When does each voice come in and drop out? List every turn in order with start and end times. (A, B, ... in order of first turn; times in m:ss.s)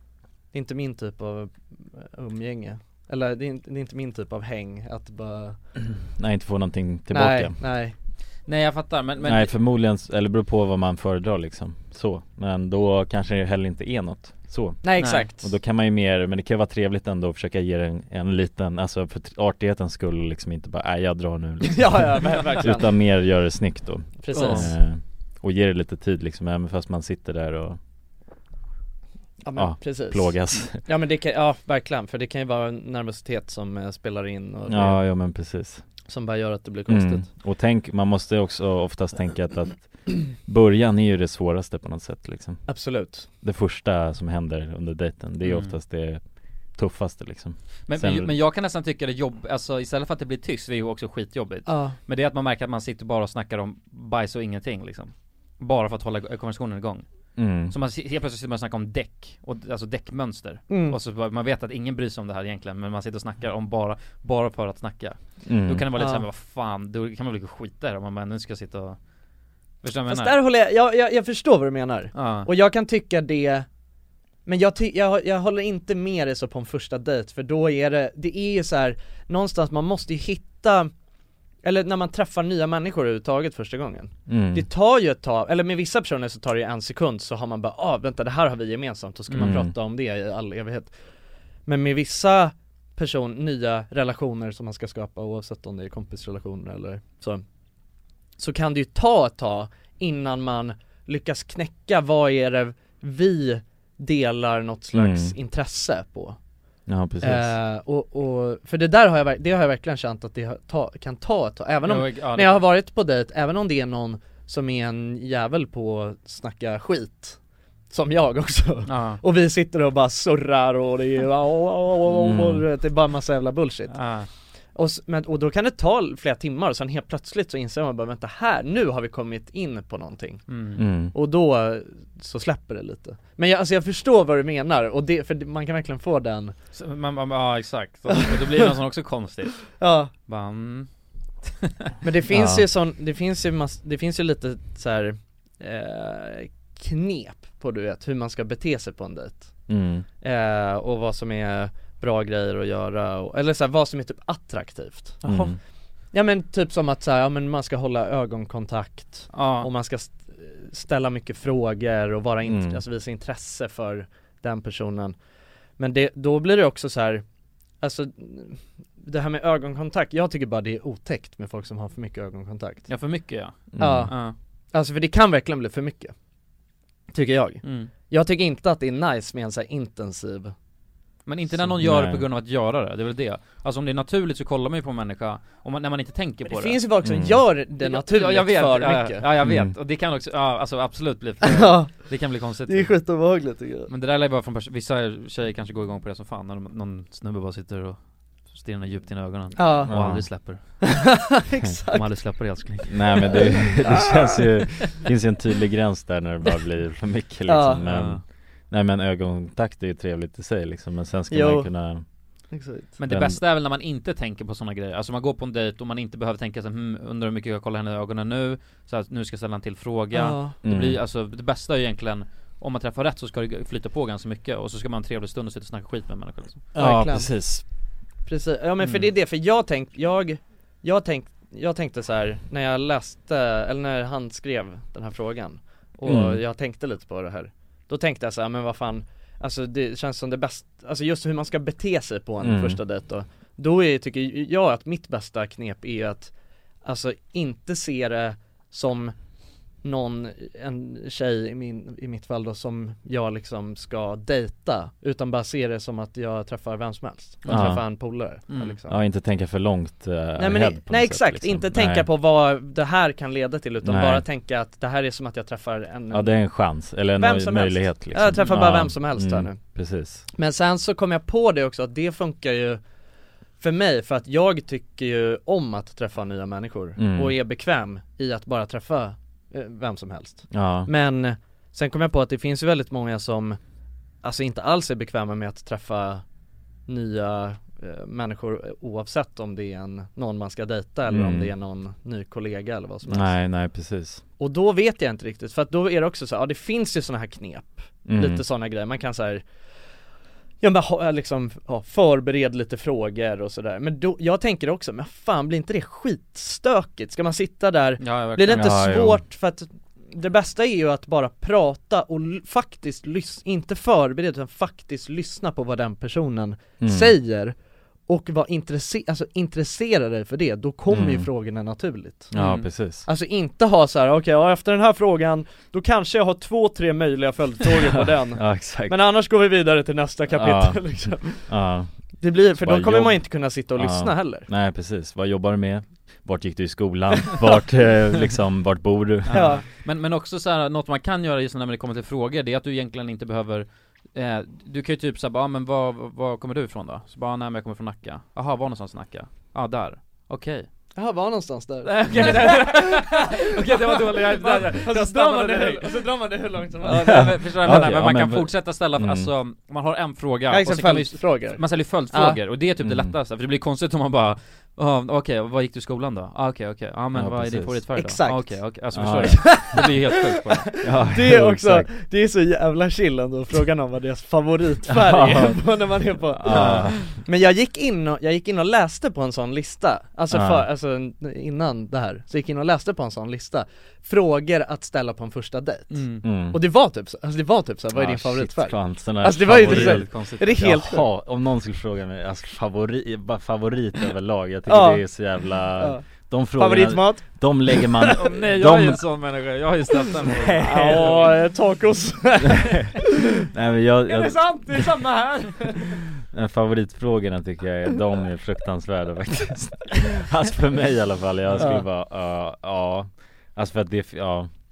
0:00.5-0:05.6 A
0:06.1-0:07.6 B
0:07.1-0:08.0 A
0:08.5-0:09.5 C
0:09.2-0:27.8 B
0:14.8-0:15.4 A
0:15.0-0:15.3 C
0:21.6-0:22.9 A
0:24.2-0:24.7 A
0:24.3-0:24.6 C
0:29.4-0:35.0 A
0:29.6-0:30.8 B
0:34.7-0:35.8 B
0:36.1-0:37.3 A
0:36.9-0:42.7 B
0:42.7-0:43.3 A
0:43.4-0:46.2 B
0:45.4-0:45.7 C
0:46.8-0:48.3 B
0:47.9-0:57.1 C
0:51.7-0:52.0 A
0:57.4-0:57.7 B
0:57.7-1:09.0 C
1:00.7-1:01.0 A
1:05.5-1:05.8 B
1:06.0-1:06.2 A
1:09.8-1:10.4 C
1:10.1-1:13.7 A
1:12.1-1:12.5 C
1:14.4-1:20.9 A
1:21.6-1:30.9 A
1:24.3-1:24.6 B
1:29.3-1:29.6 C
1:29.4-1:29.7 B
1:31.7-1:37.4 A
1:38.4-1:46.4 A
1:44.9-1:45.3 B
1:46.9-1:47.5 B
1:47.2-1:57.4 A
1:51.8-1:52.6 C
1:57.9-2:04.0 A
1:58.9-1:59.2 C
2:02.1-2:02.6 B
2:03.9-2:04.3 C
2:04.8-2:10.4 A
2:10.5-2:10.8 C
2:10.8-2:11.2 B
2:11.1-2:16.6 A
2:16.7-2:19.7 C
2:18.2-2:18.6 A
2:19.8-2:20.1 A
2:20.3-2:20.9 C
2:21.4-2:21.9 C
2:22.0-2:29.5 A
2:22.3-2:22.6 B
2:29.7-2:30.1 B
2:30.2-2:35.5 A
2:35.2-2:35.6 B
2:36.1-2:45.2 A
2:39.3-2:39.7 C
2:42.5-2:42.8 B
2:45.8-2:47.2 A
2:47.8-2:52.9 A
2:52.9-2:54.4 C
2:53.8-2:54.1 B
2:53.8-2:54.2 A
2:54.7-2:56.2 A
2:57.1-3:00.5 A
2:57.6-2:57.9 C
3:01.3-3:06.8 C
3:01.6-3:02.2 B
3:06.5-3:09.2 A
3:07.0-3:07.4 B
3:07.8-3:12.9 C
3:09.4-3:09.7 B
3:11.4-3:12.1 A
3:12.7-3:13.9 A
3:13.9-3:20.7 C
3:19.6-3:19.9 A
3:19.9-3:20.3 B
3:20.9-3:22.0 A
3:21.9-3:23.5 C
3:22.9-3:32.0 B
3:23.3-3:24.4 A
3:27.5-3:27.8 A
3:27.9-3:28.2 C
3:31.3-3:31.7 A
3:32.5-3:32.9 A
3:33.0-3:46.7 C
3:33.1-3:33.4 B
3:40.1-3:40.5 A
3:40.6-3:41.0 B
3:46.8-3:47.6 B
3:46.8-3:47.3 A
3:48.3-4:06.3 A
3:48.8-3:49.1 C
3:56.1-3:56.4 B
4:02.4-4:02.8 B
4:06.8-4:09.2 A
4:09.8-4:19.0 A
4:17.4-4:17.7 C
4:17.5-4:17.8 B
4:18.5-4:18.8 C
4:18.9-4:22.1 B
4:20.4-4:26.4 A
4:23.8-4:24.2 B
4:26.1-4:30.3 B
4:27.2-4:29.6 A
4:30.3-4:32.8 A
4:33.6-4:43.6 A
4:37.0-4:37.4 B
4:40.5-4:40.9 B
4:44.2-4:46.2 A
4:46.9-4:53.3 A
4:51.1-4:51.5 B
4:53.1-4:54.2 B
4:54.4-4:59.4 A
4:58.1-4:58.4 B
5:00.6-5:17.6 A
5:08.0-5:08.8 C
5:08.5-5:09.2 B
5:16.8-5:17.1 B
5:18.1-5:22.3 A
5:20.9-5:21.3 B
5:22.3-5:23.1 B
5:22.4-5:22.7 C
5:23.1-5:31.5 A
5:28.3-5:29.0 B
5:30.3-5:31.9 B
5:32.2-5:34.5 A
5:32.6-5:39.4 B
5:39.3-5:50.7 C
5:39.3-5:39.6 A
5:51.0-5:57.3 A
5:51.8-5:56.0 C
5:56.9-6:10.7 C
5:56.9-5:59.3 B
6:00.5-6:01.6 A
6:02.1-6:02.4 A
6:02.8-6:03.1 B
6:07.2-6:07.8 B
6:08.0-6:08.6 A
6:09.0-6:09.6 B
6:09.4-6:09.9 A
6:10.5-6:31.1 A
6:10.8-6:11.9 B
6:14.9-6:15.6 B
6:16.3-6:17.1 B
6:16.5-6:16.9 C
6:20.3-6:20.6 B
6:25.9-6:26.2 C
6:26.2-6:26.6 B
6:27.9-6:39.0 B
6:29.4-6:30.7 C
6:34.7-6:35.0 A
6:35.8-6:36.0 A
6:36.6-6:38.2 A
6:38.2-6:41.3 C
6:40.3-6:41.2 B
6:40.6-6:43.2 A
6:42.6-6:42.9 B
6:43.5-6:44.9 B
6:44.1-6:46.0 A
6:46.3-6:54.5 B